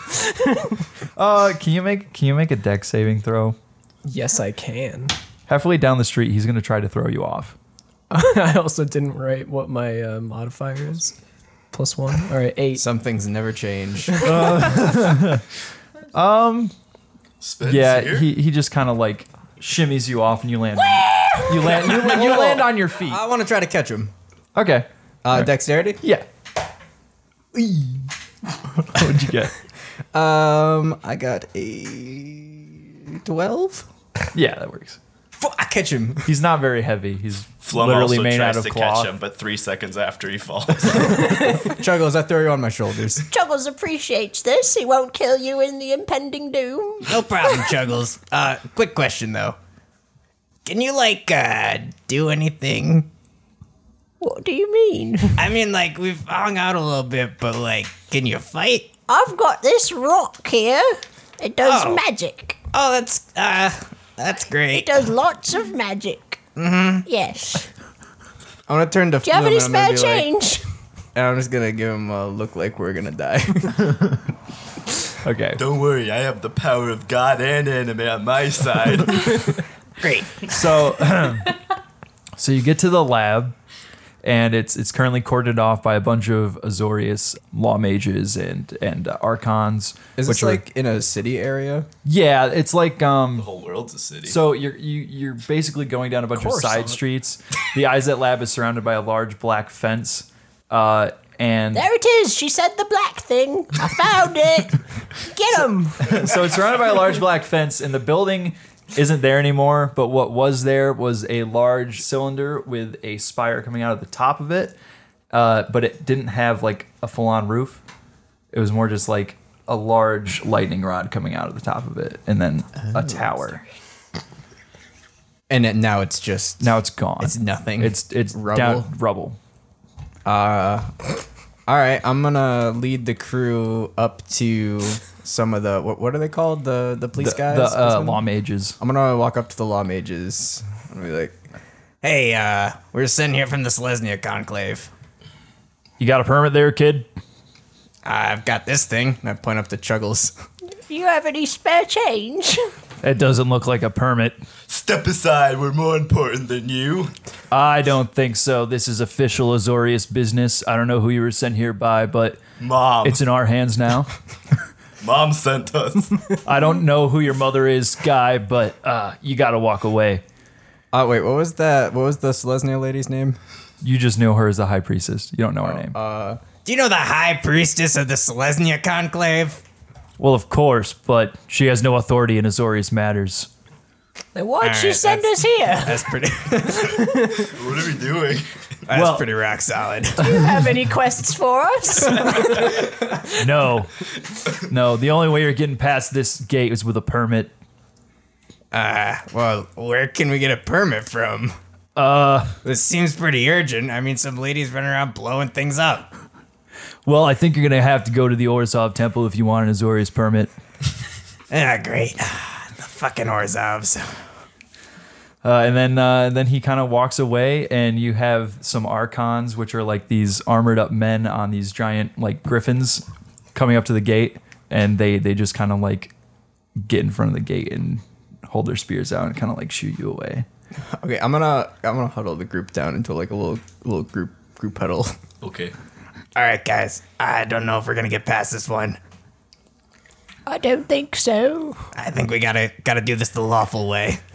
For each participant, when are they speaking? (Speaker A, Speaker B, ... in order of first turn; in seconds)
Speaker A: 1.2-3.6, 5.5-7.6, 14.2-15.5, 16.1-16.7, 17.6-23.2, 24.6-26.2, 27.6-28.1, 28.8-29.6, 34.3-35.0, 36.2-39.1, 75.2-75.6, 80.5-81.5, 82.4-83.5, 84.2-90.6, 92.0-93.5, 94.2-101.9, 106.0-114.8, 115.3-117.8, 118.5-123.6, 126.6-129.4, 137.2-138.8, 146.0-147.1, 153.0-154.4, 157.5-162.4, 163.0-164.1, 166.4-170.2, 173.8-176.0, 180.2-183.5, 188.9-189.3, 193.4-193.9, 194.7-197.5, 201.9-202.6, 207.1-210.5, 215.4-226.1, 226.8-230.4
Speaker B: 4.1-5.1, 8.1-11.1, 11.7-12.8, 96.3-97.0
Speaker C: 12.8-14.7, 21.7-24.1, 25.2-26.0, 30.1-33.9, 35.4-36.3, 41.6-43.2, 68.7-70.3, 71.1-73.9, 90.2-91.9, 125.5-128.9, 130.2-131.1, 131.7-138.2, 138.8-141.4, 149.2-150.3, 170.9-173.4, 175.6-176.4, 230.9-235.1
Speaker D: 17.4-18.3, 37.6-41.6, 75.6-79.6, 93.3-94.4, 154.7-157.1, 162.6-163.2, 165.0-166.2, 187.0-188.5, 192.3-192.7, 235.4-235.7
Speaker E: 21.1-21.4, 43.3-47.8, 54.2-55.5, 59.1-62.6, 64.7-66.4, 67.0-67.7, 69.2-70.6, 101.7-106.2, 150.9-152.7, 184.3-186.1, 190.2-192.6, 240.4-241.8
Speaker F: 47.1-49.6, 50.7-53.1, 55.4-59.0, 61.6-62.0, 62.7-65.0, 66.6-67.1, 80.0-80.5, 142.0-144.9, 148.1-149.4, 176.6-179.6, 184.6-187.0, 188.9-190.3, 198.7-201.6, 202.6-206.1, 211.5-214.1, 236.4-239.0, 241.9-244.2